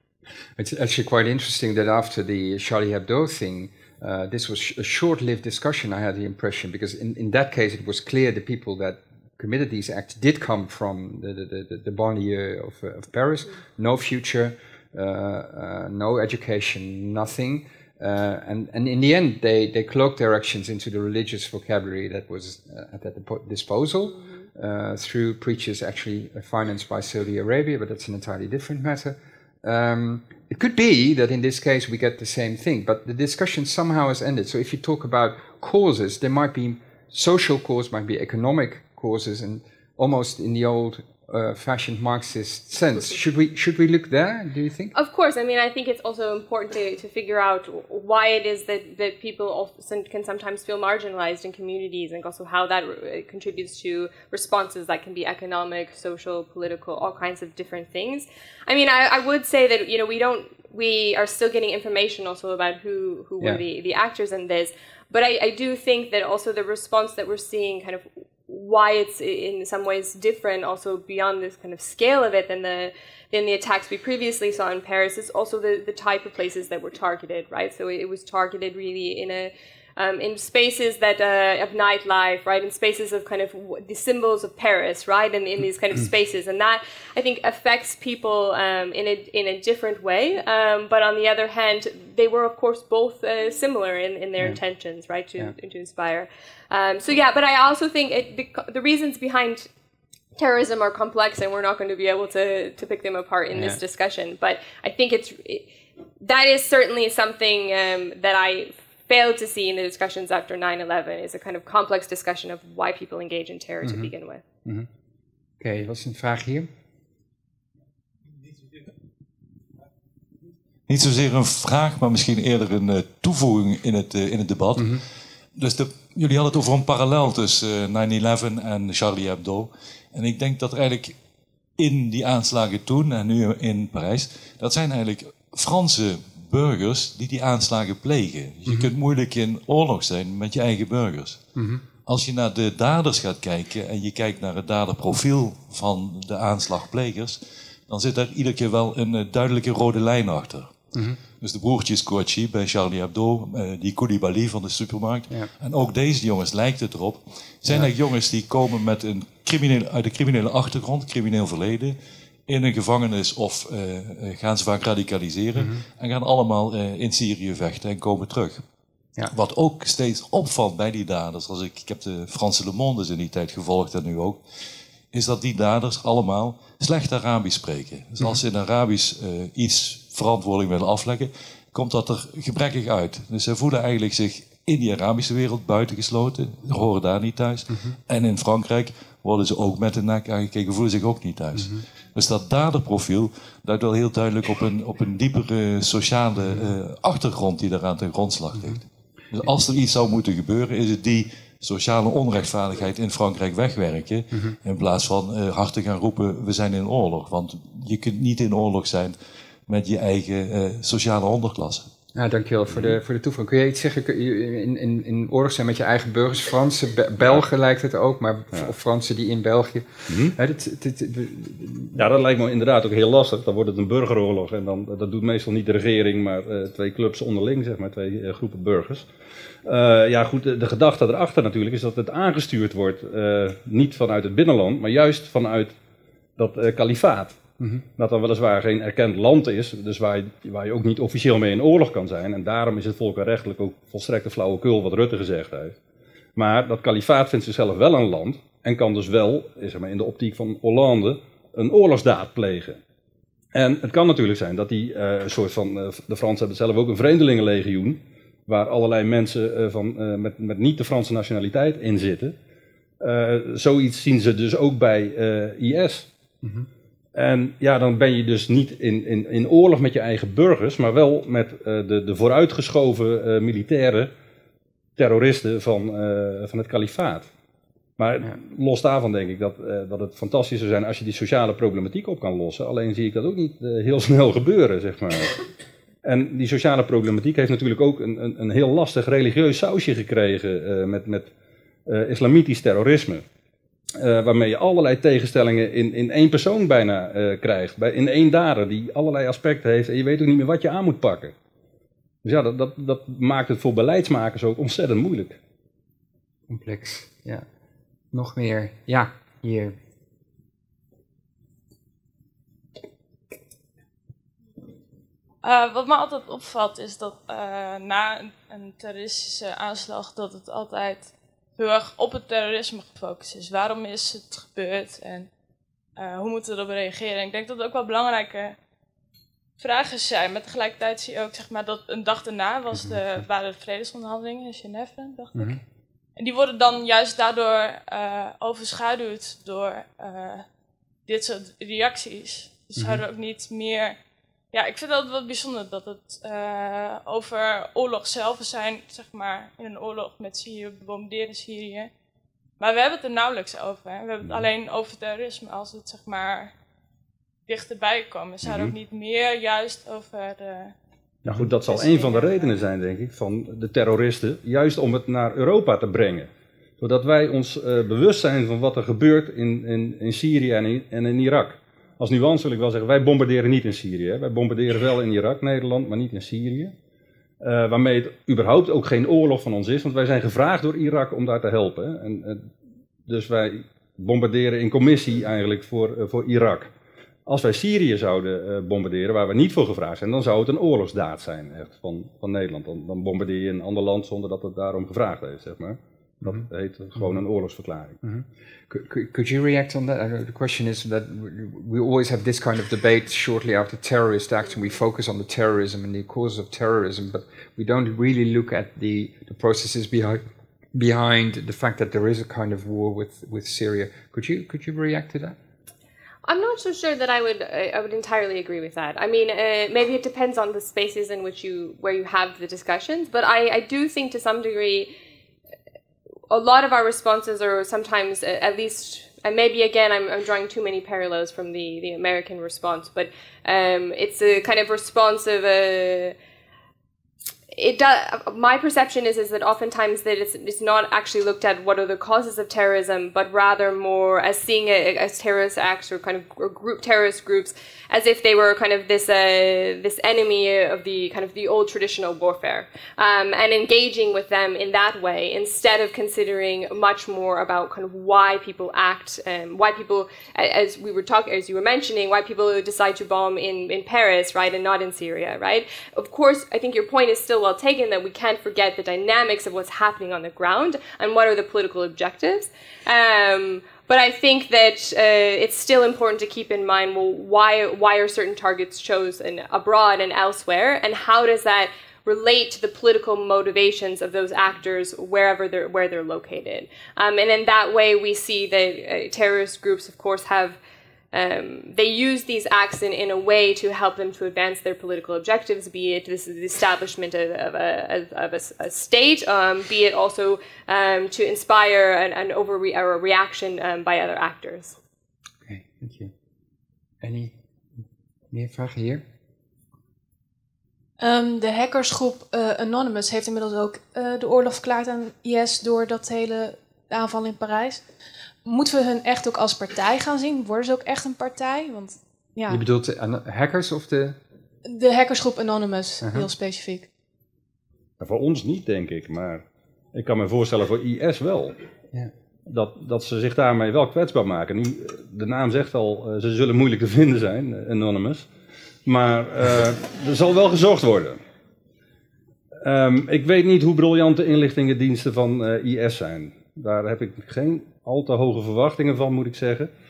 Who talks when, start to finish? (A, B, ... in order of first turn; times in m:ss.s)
0:00.6-0:44.9 A
0:44.9-1:39.7 B
1:40.4-1:45.7 B
1:46.2-1:54.4 B
1:53.8-1:54.1 A
1:55.6-1:56.7 A
2:00.9-2:05.0 C
2:04.8-2:05.0 A
2:05.5-2:11.2 C
2:11.8-2:21.4 C
2:21.6-2:21.8 A
2:22.0-2:48.6 C
2:30.9-2:31.2 A
2:45.6-2:45.8 A
2:49.3-2:54.4 C
2:55.1-3:31.9 C
3:07.7-3:08.0 A
3:11.6-3:11.8 A
3:32.1-3:42.0 A
3:32.7-3:33.0 D
3:40.1-3:40.4 D
3:41.9-3:49.1 D
3:49.6-3:55.7 D
3:56.4-3:57.4 D
3:58.0-4:05.8 D
4:06.4-4:12.8 D
4:13.5-4:22.3 D
4:23.0-4:26.1 D
4:27.1-4:34.1 D
4:35.0-4:37.3 D
4:38.0-4:45.4 D
4:46.0-4:51.3 D
4:51.8-4:53.2 D
4:54.0-5:01.3 D
5:02.2-5:05.4 D
5:06.5-5:07.4 A
5:08.1-5:09.8 A
5:15.4-5:25.3 E
5:26.0-5:28.5 E
5:29.6-5:35.6 E
5:32.7-5:33.0 A
5:35.3-5:35.6 A
5:36.2-5:40.5 E
5:41.1-5:44.0 E
5:42.8-5:43.0 A
5:44.5-5:51.9 E
5:52.6-5:56.5 E
5:57.5-6:00.7 E
5:58.4-5:58.7 D
6:01.2-6:06.3 D
6:01.6-6:02.7 E
6:06.8-6:16.7 D
6:17.4-6:22.5 D
6:23.1-6:26.7 D
6:27.2-6:38.0 D
6:38.0-6:50.2 A
6:50.7-6:55.4 A
6:56.2-7:04.9 B
7:06.3-7:16.1 B
7:17.5-8:10.6 B
8:11.1-8:24.8 B
8:25.4-8:26.1 A
8:27.0-8:27.3 A
8:28.3-8:29.0 A
8:31.0-8:37.8 F
8:38.4-8:42.6 F
8:42.5-8:44.2 A
8:44.6-8:46.9 F
8:48.0-8:51.6 D
8:52.4-8:58.3 D
8:58.8-9:01.2 D
9:02.6-9:09.7 D